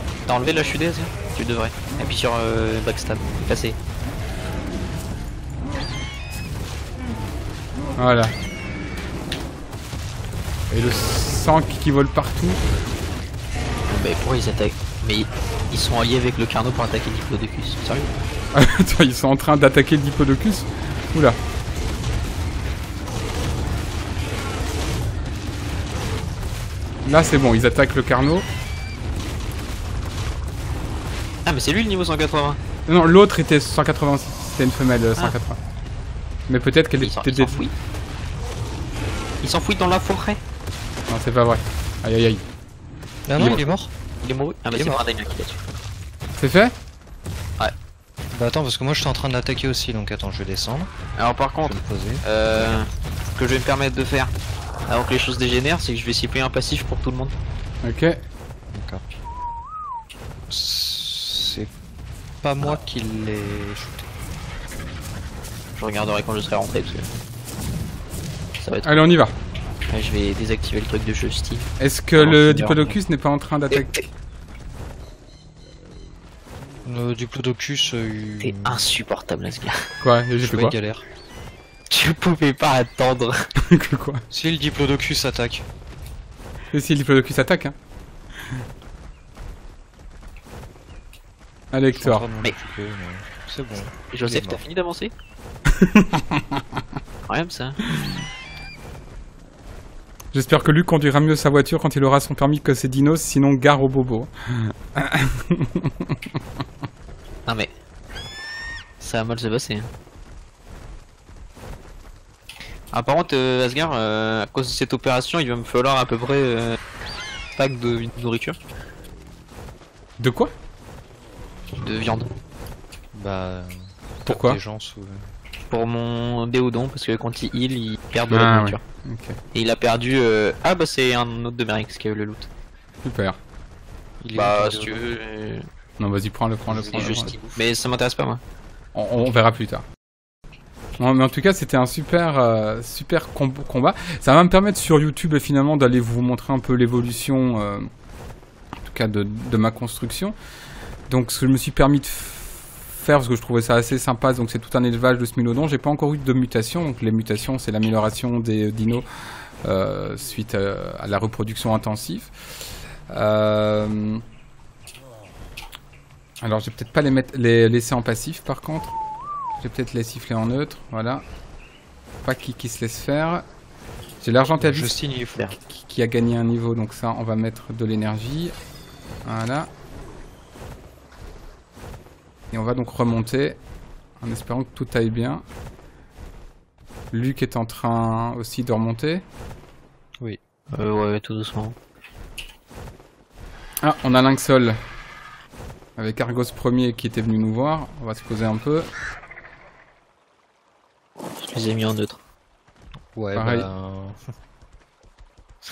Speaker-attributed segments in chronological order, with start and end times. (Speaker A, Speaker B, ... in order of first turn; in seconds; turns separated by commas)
Speaker A: 0.2-3.8, Speaker B: 8.0-8.3, Speaker B: 10.7-12.6, Speaker A: 13.9-18.1, Speaker B: 18.5-21.4, Speaker B: 27.0-28.5, Speaker A: 31.4-32.6, Speaker B: 32.9-35.6, Speaker B: 36.5-37.6, Speaker A: 37.0-37.7, Speaker A: 39.4-40.4, Speaker B: 41.1-42.4, Speaker C: 43.3-43.9, Speaker A: 43.4-43.6, Speaker A: 44.2-45.6, Speaker C: 44.7-45.0, Speaker B: 46.4-46.7, Speaker C: 48.3-50.9, Speaker A: 51.1-54.3, Speaker C: 51.6-52.2, Speaker A: 54.9-57.3, Speaker B: 57.8-58.2, Speaker C: 58.7-59.0, Speaker C: 60.5-61.7, Speaker C: 62.4-64.1, Speaker A: 65.8-67.1, Speaker A: 68.6-69.0, Speaker B: 68.8-69.3, Speaker A: 69.9-73.0, Speaker B: 71.8-73.9, Speaker A: 73.7-74.0, Speaker C: 76.8-78.8, Speaker A: 78.4-79.8, Speaker B: 80.0-80.7, Speaker C: 80.4-81.0, Speaker A: 81.9-83.4, Speaker B: 83.7-84.2, Speaker C: 84.3-85.6, Speaker B: 86.7-87.7, Speaker B: 91.7-92.2, Speaker C: 91.9-94.6, Speaker A: 94.1-95.1, Speaker B: 95.8-96.6, Speaker A: 97.3-97.8, Speaker B: 100.3-106.1, Speaker A: 109.0-109.9, Speaker A: 112.9-116.8, Speaker A: 117.5-118.6, Speaker B: 120.2-120.5, Speaker A: 121.8-122.3, Speaker C: 123.1-123.7, Speaker C: 124.2-125.3, Speaker B: 124.3-124.6, Speaker A: 125.7-128.8, Speaker B: 128.3-129.4, Speaker A: 129.5-132.5, Speaker B: 133.0-133.4, Speaker C: 134.2-135.0, Speaker A: 134.3-135.7, Speaker B: 136.0-137.3, Speaker C: 136.7-137.5, Speaker A: 136.9-138.4, Speaker B: 138.9-139.8, Speaker B: 141.0-147.9, Speaker B: 148.8-150.3, Speaker B: 151.1-159.0, Speaker B: 159.6-162.3, Speaker B: 163.1-164.2, Speaker B: 166.4-168.9, Speaker B: 169.6-171.2, Speaker B: 172.2-173.4, Speaker B: 174.2-178.5, Speaker C: 174.6-175.6, Speaker B: 179.2-179.7, Speaker B: 182.5-183.6, Speaker B: 184.2-185.4, Speaker B: 187.1-189.2, Speaker A: 190.7-191.7, Speaker B: 193.8-194.8, Speaker B: 196.0-198.9, Speaker A: 201.4-202.2, Speaker C: 203.1-204.2, Speaker B: 203.3-203.7